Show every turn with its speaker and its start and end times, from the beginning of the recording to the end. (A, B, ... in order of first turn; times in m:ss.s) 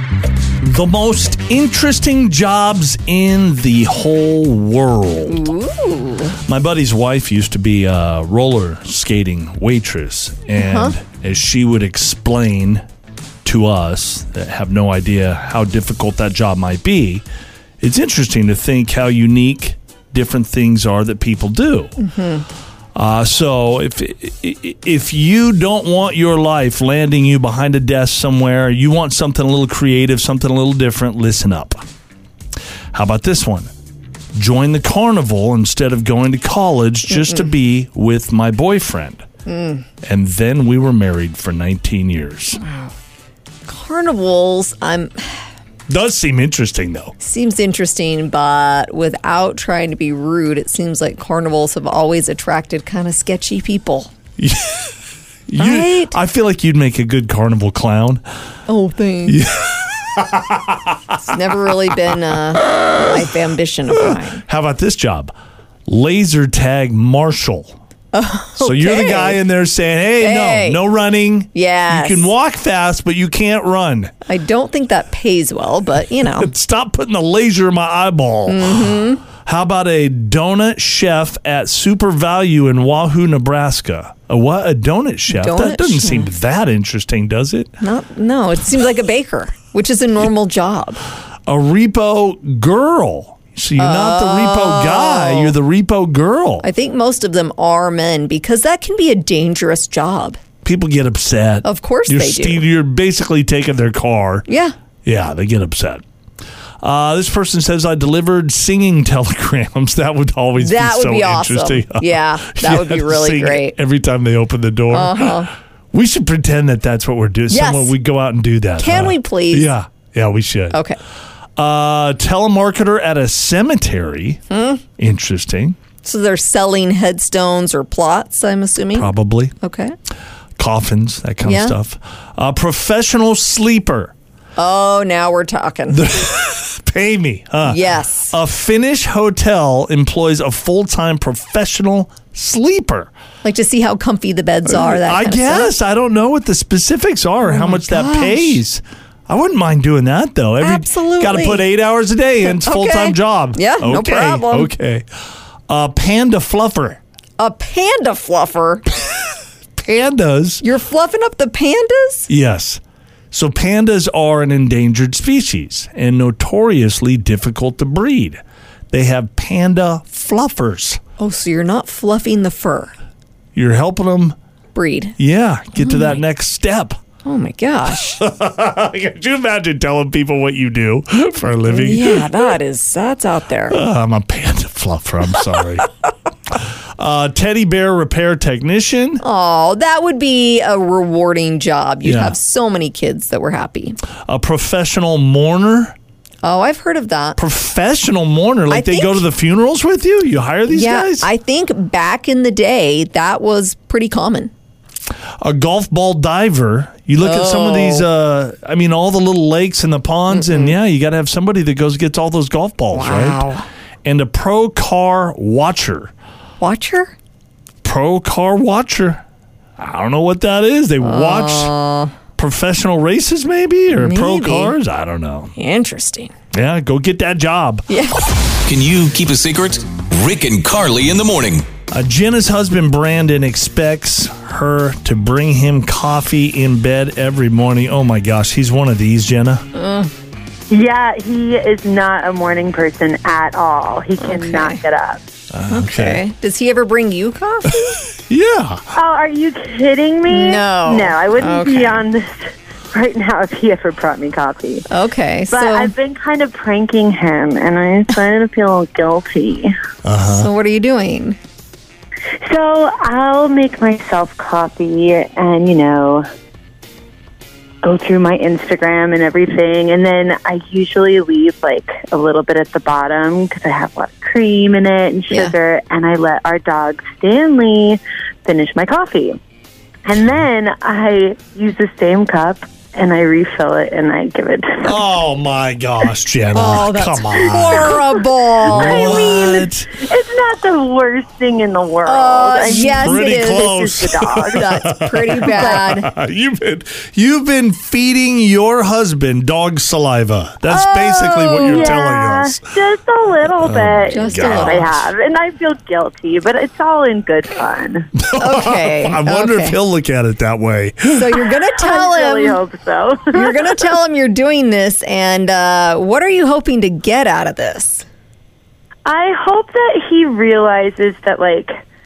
0:00.6-0:05.5 A
0:05.3-0:06.4 B
0:06.4-0:12.8 A
0:10.6-0:10.9 B
0:13.4-0:17.2 A
0:17.8-0:22.0 A
0:22.0-0:22.4 B
0:22.9-0:31.8 A
0:32.9-0:33.7 A
0:34.3-0:39.2 A
0:37.1-0:37.5 B
0:39.4-0:39.8 B
0:40.0-0:42.6 A
0:42.6-0:42.9 B
0:43.7-0:45.4 B
0:45.9-0:47.1 A
0:47.2-0:54.1 B
0:54.4-0:54.9 A
0:55.5-0:58.2 A
0:55.6-0:56.1 B
0:58.7-0:59.4 B
0:59.2-1:01.5 A
1:01.2-1:04.4 B
1:04.0-1:05.3 A
1:05.9-1:07.8 A
1:08.1-1:09.4 B
1:08.6-1:14.1 A
1:10.2-1:10.8 B
1:11.5-1:12.3 B
1:14.2-1:16.5 B
1:16.2-1:27.8 A
1:18.5-1:19.2 B
1:25.3-1:26.3 B
1:27.8-1:31.0 B
1:31.5-1:36.7 A
1:33.8-1:35.5 B
1:36.6-1:40.4 B
1:40.6-1:44.5 A
1:41.6-1:42.6 B
1:44.5-1:44.7 B
1:45.0-1:46.0 A
1:46.8-2:00.8 A
1:50.6-1:53.8 B
1:54.9-1:55.5 B
1:57.5-1:57.9 B
1:58.8-1:59.7 B
2:00.7-2:01.0 B
2:01.6-2:04.4 A
2:04.5-2:04.8 B
2:05.0-2:05.8 A
2:06.0-2:09.9 B
2:08.9-2:09.5 A
2:10.6-2:14.1 A
2:11.4-2:11.7 B
2:14.6-2:16.1 B
2:15.9-2:23.1 A
2:17.6-2:18.3 B
2:23.4-2:25.7 B
2:24.6-2:35.0 A
2:27.4-2:28.6 B
2:30.6-2:31.6 B
2:32.4-2:34.7 B
2:35.7-2:37.0 A
2:37.4-2:38.8 B
2:39.8-2:40.6 A
2:40.6-2:42.3 B
2:42.3-2:42.8 A
2:43.3-2:51.0 A
2:51.2-2:52.9 B
2:53.5-2:54.4 A
2:54.7-2:55.2 B
2:55.2-2:57.0 A
2:55.8-2:56.2 B
2:57.2-2:58.2 B
2:58.2-3:02.5 A
3:01.7-3:03.8 B
3:03.7-3:05.9 A
3:06.5-3:09.2 A
3:09.2-3:14.0 B
3:12.0-3:12.4 A
3:14.2-3:16.0 A
3:16.4-3:17.4 B
3:17.4-3:21.3 A
3:18.7-3:19.2 B
3:20.7-3:24.5 B
3:25.4-3:33.5 A
3:27.2-3:28.1 B
3:30.3-3:30.8 B
3:32.9-3:33.6 B
3:34.0-3:36.1 A
3:36.6-3:37.1 B
3:37.8-3:39.2 A
3:39.8-3:41.7 A
3:41.0-3:42.1 B
3:42.4-3:45.5 A
3:43.9-3:44.7 B
3:45.6-3:46.3 B
3:46.5-3:47.9 A
3:47.9-3:48.2 B
3:48.6-3:51.7 C
3:51.9-3:59.7 A
3:59.7-4:00.1 B
4:00.7-4:05.2 D
4:04.2-4:04.8 B
4:05.5-4:06.2 A
4:05.7-4:08.0 B
4:08.3-4:08.8 A
4:08.9-4:14.8 D
4:10.3-4:12.0 B
4:14.9-4:15.9 B
4:15.5-4:19.7 D
4:20.0-4:20.5 A
4:20.3-4:21.4 B
4:22.4-4:26.2 D
4:27.8-4:39.4 D
4:40.0-4:45.0 D
4:44.8-4:48.0 A
4:46.5-4:49.3 B
4:48.6-4:49.9 A
4:48.6-4:54.7 D
4:52.0-4:53.7 B
4:52.6-5:02.6 A
4:54.5-4:56.1 B
4:55.5-4:55.8 D
5:00.7-5:02.0 B
5:01.6-5:08.1 D
5:03.6-5:04.9 A
5:04.1-5:05.1 B
5:08.2-5:11.5 A
5:08.4-5:09.8 B
5:11.1-5:12.6 B
5:11.8-5:13.8 D
5:13.3-5:18.0 B
5:19.0-5:21.8 D